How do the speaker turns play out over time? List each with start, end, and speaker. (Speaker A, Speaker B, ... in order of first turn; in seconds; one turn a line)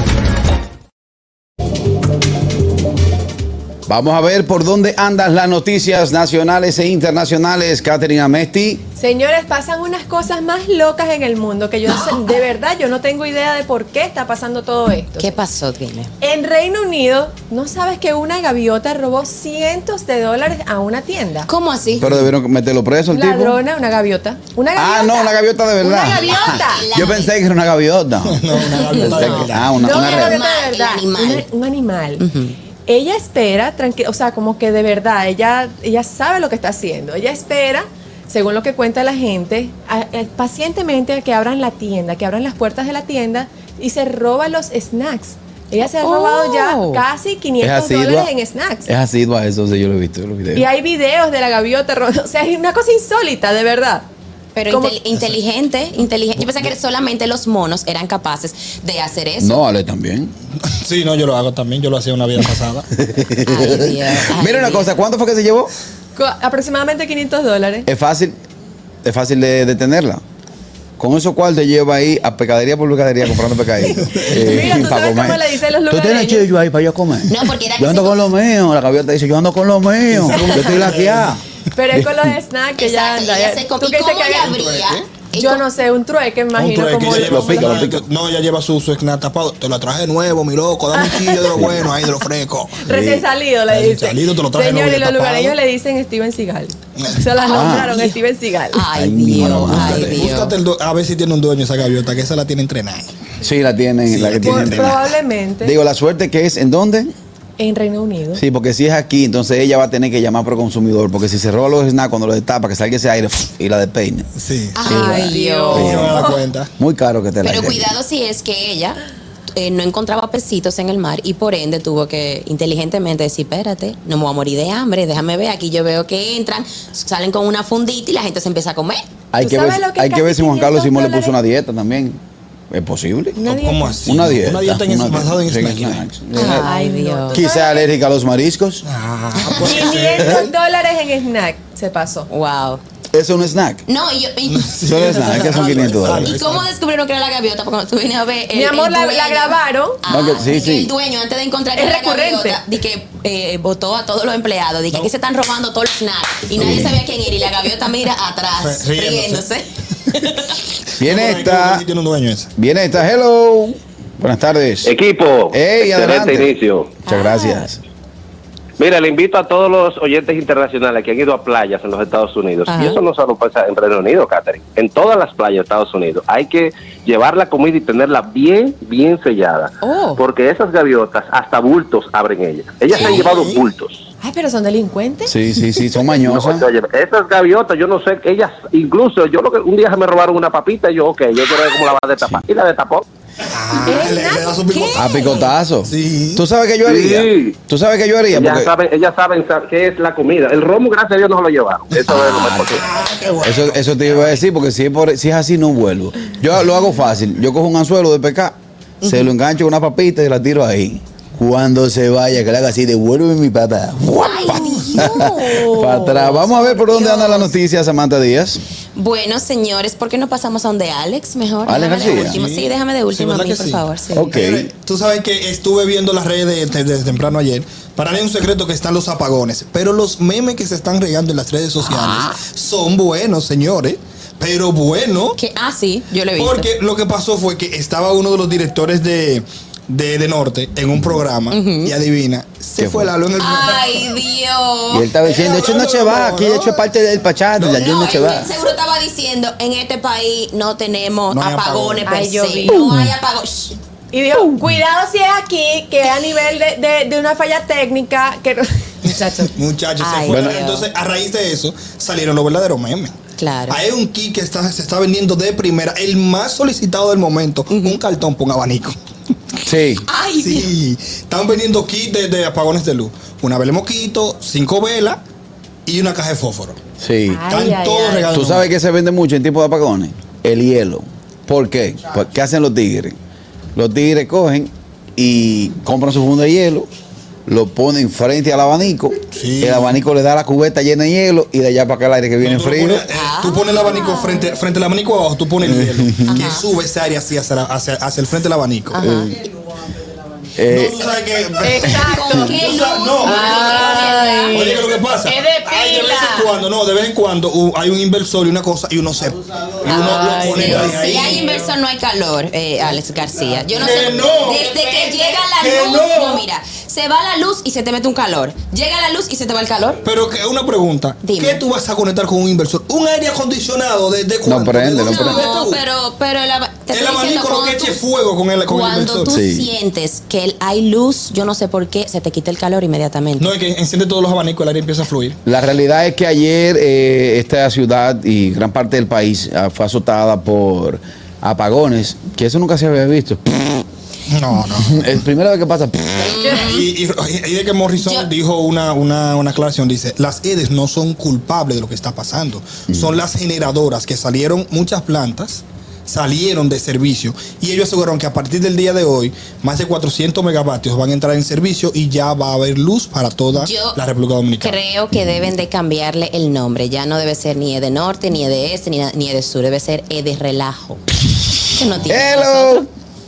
Speaker A: 3.9-8.8
Speaker B: 9.0-15.3
Speaker C: 15.2-16.1
Speaker B: 16.2-21.5
Speaker C: 21.5-22.1
Speaker A: 22.0-23.6
Speaker B: 23.1-26.8
Speaker A: 24.8-30.4
Speaker C: 26.1-27.3
Speaker D: 28.2-29.8
Speaker C: 28.7-31.4
Speaker B: 29.8-32.2
Speaker C: 32.2-32.6
Speaker B: 32.9-48.9
Speaker C: 46.0-47.0
Speaker A: 47.6-48.3
Speaker A: 48.9-50.7
Speaker B: 50.5-54.1
Speaker C: 54.5-59.6
Speaker B: 54.7-55.0
Speaker A: 59.4-60.3
Speaker D: 60.6-62.9
Speaker A: 63.0-65.7
Speaker C: 63.4-64.9
Speaker B: 66.2-67.9
Speaker A: 67.9-68.4
Speaker A: 69.0-70.2
Speaker A: 71.0-81.4
Speaker B: 74.1-76.5
Speaker C: 77.3-78.2
Speaker D: 80.1-81.3
Speaker B: 81.8-84.7
Speaker A: 81.9-82.3
Speaker C: 82.8-85.6
Speaker D: 84.5-85.0
Speaker B: 85.3-87.9
Speaker D: 86.5-92.8
Speaker A: 87.1-88.1
Speaker B: 91.0-91.7
Speaker B: 92.8-98.9
Speaker A: 92.9-93.3
Speaker D: 93.7-95.6
Speaker C: 97.4-98.2
Speaker A: 97.5-98.0
Speaker C: 98.7-100.5
Speaker A: 98.9-100.3
Speaker D: 99.4-103.2
Speaker A: 103.4-105.1
Speaker D: 104.0-105.0
Speaker B: 104.4-105.8
Speaker A: 105.6-107.1
Speaker B: 107.6-108.4
Speaker A: 108.4-114.3
Speaker D: 114.4-114.8
Speaker C: 114.8-116.3
Speaker B: 114.8-116.4
Speaker A: 114.8-116.3
Speaker D: 115.7-116.7
Speaker A: 116.8-117.9
Speaker C: 117.4-119.0
Speaker C: 119.5-129.1
Speaker A: 129.3-132.2
Speaker B: 129.4-131.3
Speaker A: 132.7-136.7
Speaker B: 133.4-134.0
Speaker D: 133.5-136.1
Speaker C: 136.3-137.4
Speaker B: 136.3-137.9
Speaker A: 137.3-138.8
Speaker D: 138.8-140.5
Speaker B: 139.5-142.3
Speaker C: 142.3-142.8
Speaker A: 143.1-143.8
Speaker C: 143.9-160.6
Speaker D: 144.5-146.7
Speaker A: 144.9-146.4
Speaker B: 148.5-150.0
Speaker A: 150.1-150.9
Speaker B: 151.7-152.6
Speaker A: 156.6-157.0
Speaker D: 158.6-159.5
Speaker A: 161.0-161.8
Speaker D: 161.0-162.5
Speaker A: 162.6-165.0
Speaker E: 164.8-167.0
Speaker A: 165.5-166.5
Speaker A: 167.1-167.8
Speaker C: 167.1-167.7
Speaker E: 168.8-184.0
Speaker C: 172.7-173.0
Speaker C: 179.8-180.2
Speaker C: 182.9-183.2
Speaker D: 182.9-183.6
Speaker B: 184.2-185.3
Speaker A: 185.3-186.7
Speaker E: 186.0-193.1
Speaker D: 193.5-195.3
Speaker B: 193.8-195.5
Speaker A: 194.9-198.7
Speaker D: 195.8-196.4
Speaker E: 196.8-197.6
Speaker E: 198.3-202.8
Speaker A: 202.1-202.9
Speaker D: 202.2-204.2
Speaker A: 203.4-218.6
Speaker C: 209.0-209.3
Speaker C: 214.2-217.5
Speaker C: 218.9-224.3
Speaker A: 221.7-222.4
Speaker D: 222.0-235.4
Speaker A: 224.1-224.7
Speaker C: 235.3-236.7
Speaker D: 236.4-244.1
Speaker C: 241.5-241.9
Speaker A: 242.8-243.1
Speaker C: 243.4-245.1
Speaker A: 244.9-248.5
Speaker D: 245.2-246.8
Speaker D: 247.6-247.8
Speaker C: 247.7-253.8
Speaker D: 251.3-252.1
Speaker B: 252.1-253.0
Speaker B: 254.1-259.5
Speaker D: 259.5-263.2
Speaker C: 260.0-260.9
Speaker A: 260.3-260.6
Speaker C: 263.4-263.8
Speaker D: 263.7-269.0
Speaker C: 267.7-268.0
Speaker A: 269.6-270.1
Speaker C: 270.1-270.7
Speaker D: 270.4-275.2
Speaker D: 275.9-276.8
Speaker A: 277.0-277.5
Speaker B: 277.3-278.3
Speaker D: 277.5-278.7
Speaker A: 278.3-283.2
Speaker A: 283.8-286.9
Speaker A: 287.5-293.1
Speaker D: 289.3-289.9
Speaker D: 292.4-299.0
Speaker C: 293.1-294.6
Speaker A: 295.6-296.3
Speaker C: 296.3-296.7
Speaker C: 298.9-299.4
Speaker A: 299.0-299.4
Speaker A: 300.6-301.1
Speaker D: 300.6-311.5
Speaker B: 301.6-302.7
Speaker C: 301.9-304.6
Speaker B: 303.2-306.5
Speaker C: 309.9-320.0
Speaker B: 309.9-311.4
Speaker D: 313.6-316.4
Speaker D: 320.1-325.8
Speaker C: 321.2-321.6
Speaker A: 324.4-325.5
Speaker C: 325.0-328.0
Speaker D: 326.9-329.4
Speaker C: 328.7-333.5
Speaker A: 329.3-329.7
Speaker D: 333.4-335.4
Speaker A: 335.4-343.9
Speaker D: 344.3-345.1
Speaker A: 344.8-346.6
Speaker C: 346.2-346.9
Speaker D: 346.6-364.8
Speaker C: 348.0-348.3
Speaker A: 352.9-353.2
Speaker C: 363.6-364.0
Speaker C: 364.6-371.0
Speaker C: 371.7-372.8
Speaker A: 372.1-372.9